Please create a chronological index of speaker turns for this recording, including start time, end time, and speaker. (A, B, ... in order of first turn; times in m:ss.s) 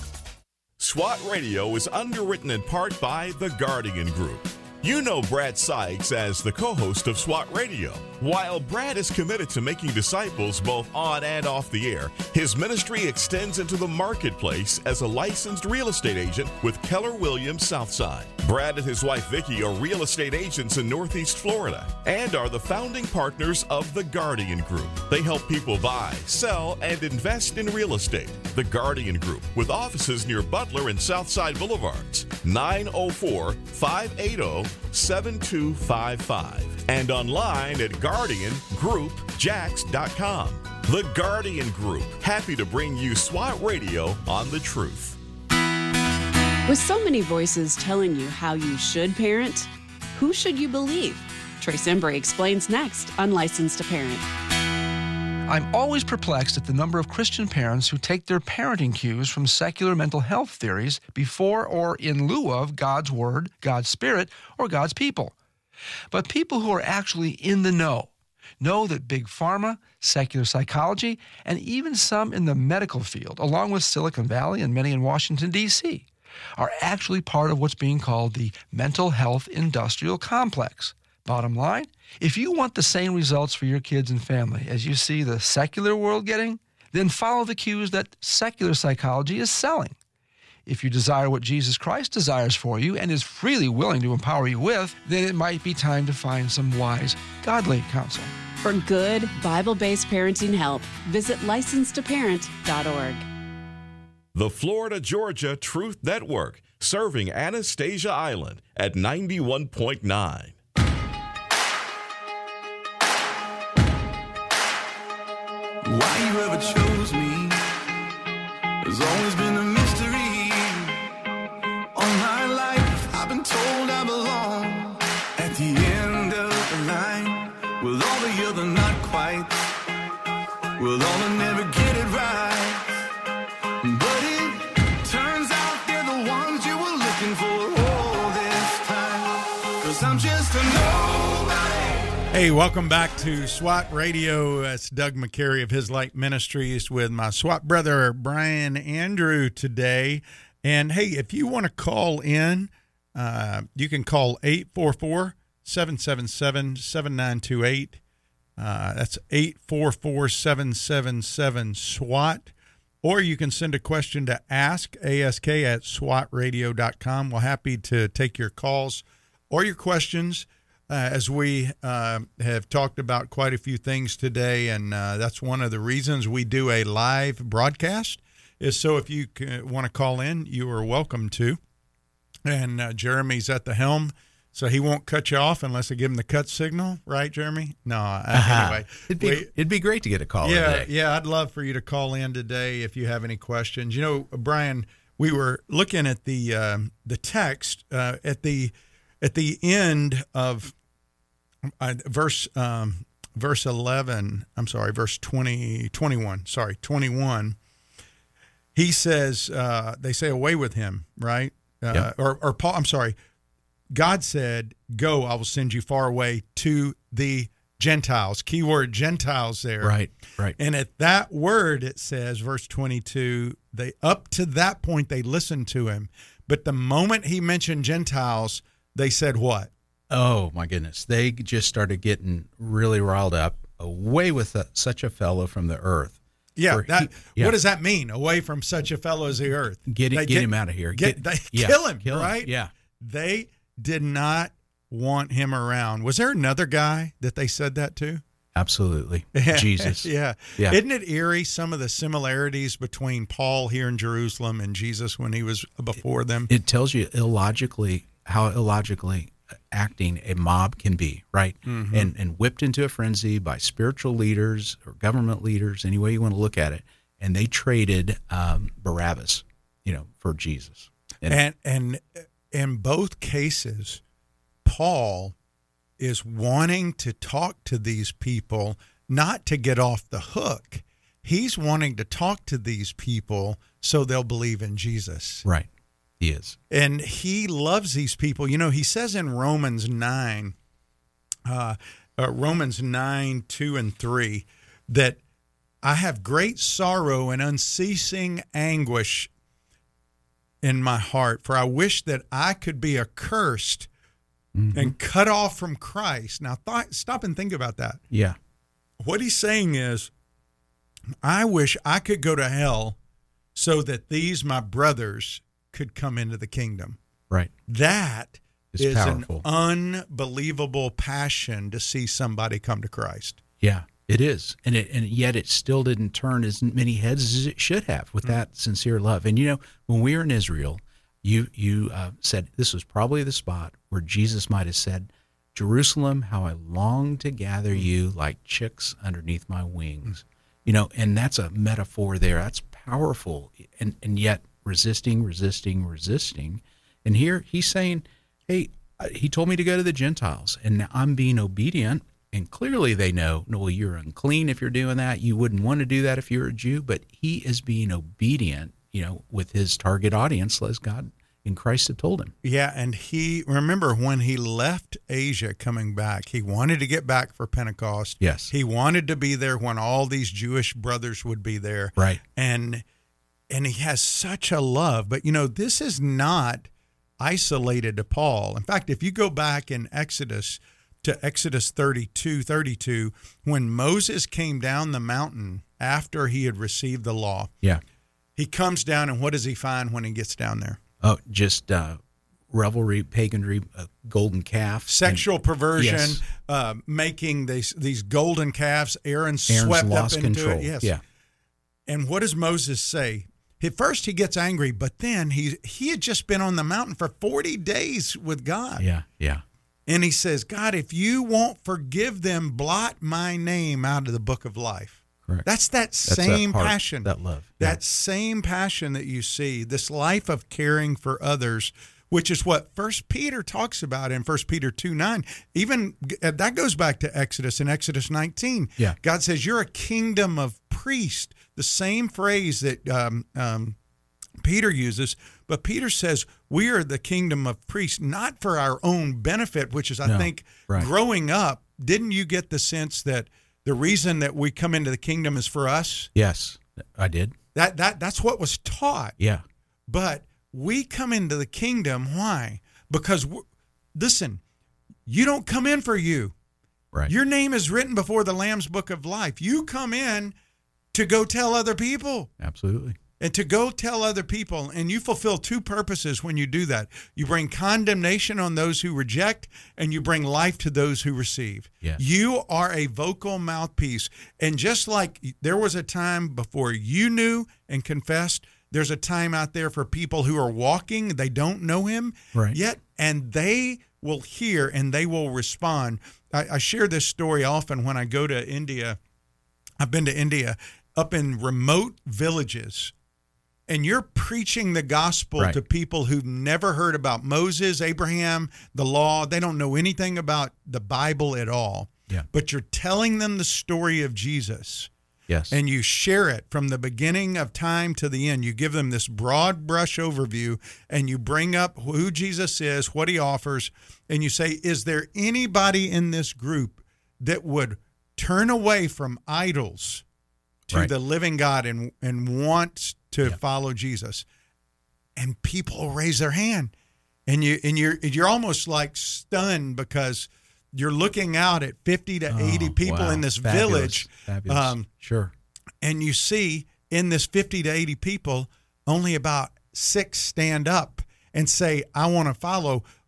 0:00.8-0:45.2 A
0:46.7-0:54.2 B
0:55.5-1:05.4 C
1:06.1-1:16.0 C
1:16.6-1:30.0 C
1:30.6-1:38.3 C
1:38.6-1:43.2 B
1:44.3-1:50.6 A
1:55.8-1:57.6 D
1:58.8-2:01.0 D
2:01.9-2:09.5 D
2:10.8-2:12.8 D
2:13.8-2:22.2 D
2:22.3-2:38.0 E
2:38.6-2:42.5 E
2:43.0-3:01.6 E
3:02.4-3:09.5 E
3:08.3-3:10.9 F
3:10.4-3:20.7 E
3:21.8-3:27.6 E
3:28.7-3:33.1 E
3:33.9-3:40.0 E
3:39.8-3:40.6 F
3:40.6-3:49.7 E
3:50.1-3:57.6 F
3:56.6-4:08.2 E
3:59.9-4:02.7 F
4:08.5-4:10.8 F
4:09.4-4:16.5 E
4:16.5-4:31.4 F
4:21.7-4:22.1 E
4:31.3-4:34.0 E
4:34.6-4:35.3 E
4:36.0-4:45.4 E
4:46.2-4:46.6 F
4:46.7-4:50.5 E
4:51.5-4:55.2 E
4:55.8-4:59.3 E
5:00.6-5:03.9 E
5:04.5-5:05.0 F
5:04.7-5:08.0 E
5:08.1-5:08.4 F
5:09.0-5:10.1 E
5:11.2-5:13.0 E
5:13.5-5:17.0 E
5:17.7-5:23.4 E
5:18.7-5:19.4 F
5:23.6-6:02.3 F
6:02.4-6:12.8 E
6:08.2-6:08.5 F
6:13.5-6:16.7 E
6:17.2-6:27.5 E
6:28.4-6:30.8 E
6:31.0-6:36.2 F
6:34.9-6:40.9 E
6:39.5-6:41.0 F
6:41.9-6:48.8 E
6:48.8-6:49.4 F
6:49.9-7:13.8 E
6:56.0-6:57.8 F
7:14.4-7:26.1 E
7:20.0-7:20.9 F
7:26.1-7:27.4 F
7:27.5-7:29.2 E
7:29.2-7:29.4 F
7:29.9-7:33.4 E
7:33.9-7:34.4 E
7:35.1-7:36.3 E
7:37.1-7:40.3 E
7:40.9-7:42.3 E
7:42.4-7:43.0 F
7:43.2-8:09.0 E
8:09.8-8:12.9 E
8:13.7-8:24.9 E
8:25.3-8:25.6 F
8:25.5-8:40.0 E
8:40.7-8:44.2 E
8:45.2-8:46.7 E
8:47.3-8:54.9 E
8:52.3-8:55.3 F
8:55.8-9:02.8 E